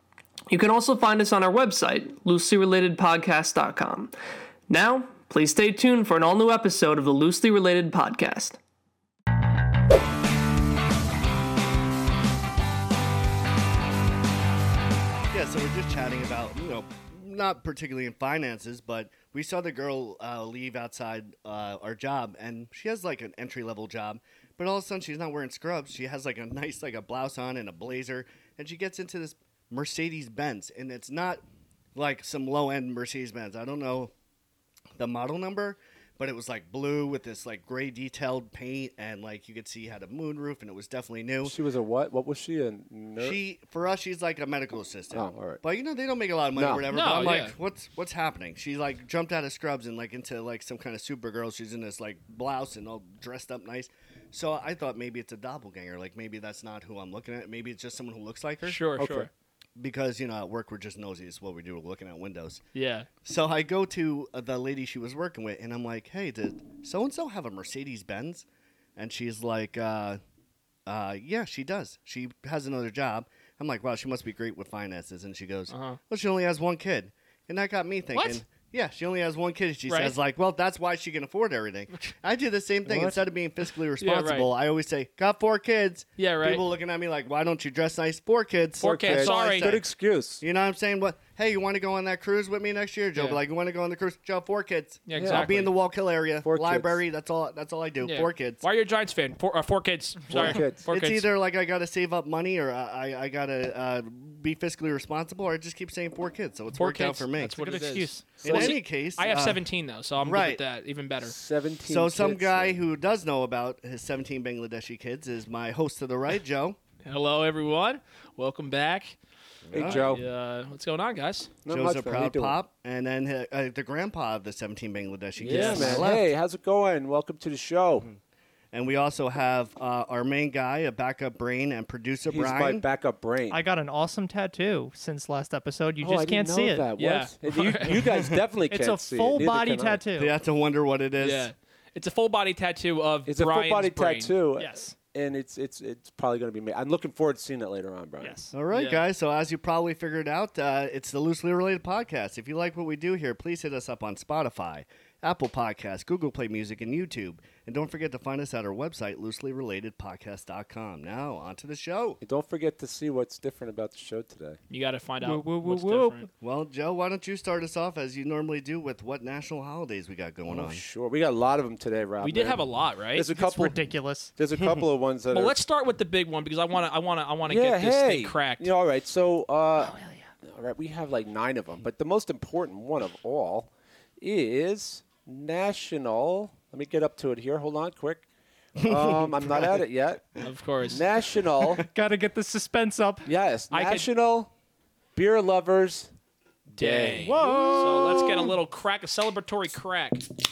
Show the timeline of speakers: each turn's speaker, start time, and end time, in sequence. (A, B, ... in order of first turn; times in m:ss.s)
0:00.5-0:04.1 A
0:04.7-0:08.6 A
0:15.3-0:31.4 B
0:32.0-0:34.1 B
0:35.0-0:41.6 B
0:41.4-0:43.4 C
0:43.2-0:58.8 B
0:45.1-0:45.6 C
0:46.6-0:47.4 C
0:46.9-0:47.5 D
0:58.6-0:59.3 D
0:59.0-0:59.3 C
0:59.8-1:02.6 B
1:02.8-1:03.1 D
1:03.2-1:10.2 B
1:10.9-1:29.8 B
1:15.7-1:16.0 D
1:18.1-1:18.4 D
1:19.9-1:20.2 D
1:24.0-1:24.5 D
1:26.2-1:26.6 D
1:28.8-1:29.8 D
1:28.8-1:30.4 C
1:30.4-1:38.6 B
1:33.2-1:33.4 D
1:35.1-1:35.7 D
1:35.2-1:35.7 C
1:36.4-1:37.0 C
1:38.0-1:41.3 D
1:40.3-1:40.9 C
1:40.3-1:47.5 B
1:46.8-1:51.4 D
1:47.6-1:48.2 E
1:48.4-1:49.6 B
1:48.4-1:48.8 C
1:50.2-1:50.6 B
1:51.2-1:52.8 C
1:51.9-1:56.8 B
1:57.0-1:59.2 D
1:59.7-2:00.2 B
1:59.7-2:01.6 D
1:59.7-2:00.2 C
2:01.6-2:02.6 C
2:01.7-2:06.3 B
2:05.4-2:06.1 D
2:05.4-2:08.1 C
2:08.7-2:12.8 B
2:12.3-2:13.6 C
2:13.5-2:16.8 E
2:16.0-2:20.0 C
2:17.0-2:18.1 D
2:18.7-2:20.3 E
2:20.2-2:21.5 B
2:21.2-2:24.3 D
2:23.3-2:28.4 C
2:24.6-2:24.9 E
2:28.2-2:28.5 E
2:28.5-2:42.2 B
2:28.7-2:29.0 D
2:42.2-2:44.6 C
2:44.7-2:46.3 D
2:45.2-2:46.3 E
2:46.4-2:50.8 B
2:50.5-2:53.8 C
2:52.2-2:53.3 D
2:53.3-2:54.3 E
2:54.4-2:55.6 C
2:55.3-2:58.7 D
2:57.5-3:08.2 C
2:59.8-3:00.2 E
3:08.8-3:11.8 C
3:08.8-3:09.7 B
3:10.4-3:11.0 D
3:11.8-3:13.3 E
3:13.3-3:14.5 C
3:13.7-3:14.1 D
3:15.2-3:16.1 C
3:16.8-3:20.3 D
3:16.8-3:18.5 C
3:17.4-3:17.9 E